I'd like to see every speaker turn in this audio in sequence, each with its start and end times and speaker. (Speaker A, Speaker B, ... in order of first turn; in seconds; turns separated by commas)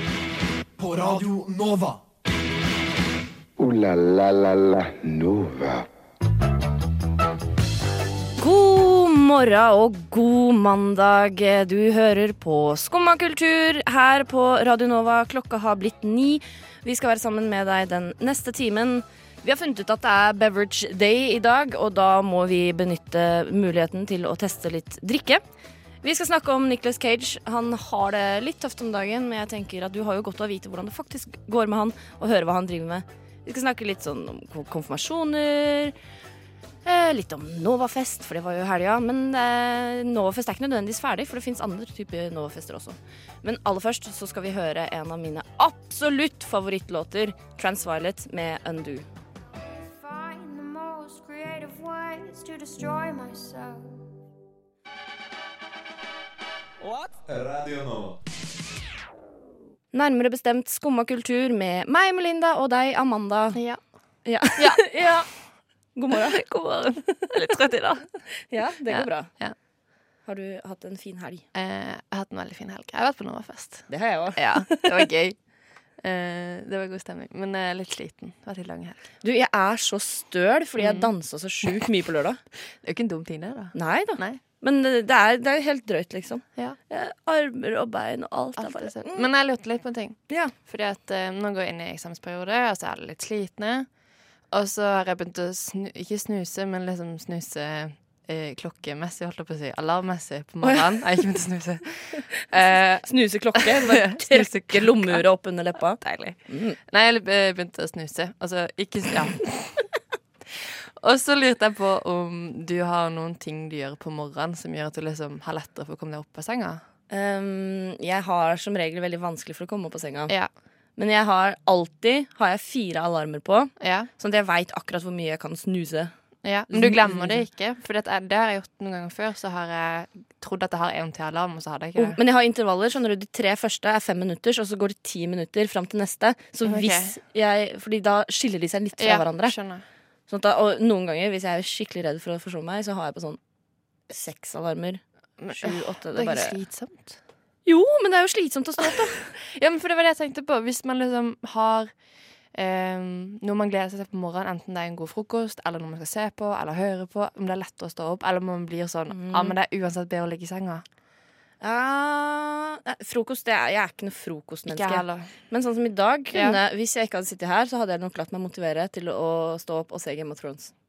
Speaker A: 0.8-2.0, Speaker B: 3.6-5.9, Speaker C: 8.4-25.4, Speaker C: 26.0-36.0, Speaker C: 36.8-49.0, Speaker D: 49.7-54.0, Speaker A: 57.3-58.1, Speaker C: 59.9-63.6, Speaker E: 63.5-63.8, Speaker C: 64.2-65.3, Speaker E: 64.6-65.2, Speaker C: 66.0-66.5, Speaker E: 66.1-68.1, Speaker C: 68.5-69.3, Speaker E: 68.9-69.5, Speaker C: 70.3-71.5, Speaker E: 71.5-75.4, Speaker C: 73.9-75.0, Speaker E: 76.0-79.0, Speaker C: 79.2-82.4, Speaker E: 80.8-81.1, Speaker E: 82.8-84.4, Speaker C: 83.7-89.3, Speaker E: 88.6-93.9, Speaker C: 90.3-90.5, Speaker E: 94.5-105.2, Speaker C: 100.6-101.0, Speaker C: 103.0-106.8, Speaker E: 106.0-109.8, Speaker E: 111.0-116.8, Speaker C: 117.1-120.3, Speaker C: 121.0-126.1, Speaker E: 123.8-124.1, Speaker E: 126.4-132.2, Speaker C: 126.7-127.5, Speaker C: 132.0-139.6, Speaker E: 136.6-137.2, Speaker E: 139.0-139.8, Speaker C: 140.3-143.4, Speaker C: 144.1-146.6, Speaker E: 145.4-147.2, Speaker C: 147.7-149.2, Speaker E: 148.8-151.9, Speaker E: 152.5-160.8, Speaker C: 159.1-159.6, Speaker C: 161.6-170.7, Speaker E: 164.7-165.3, Speaker E: 166.3-166.6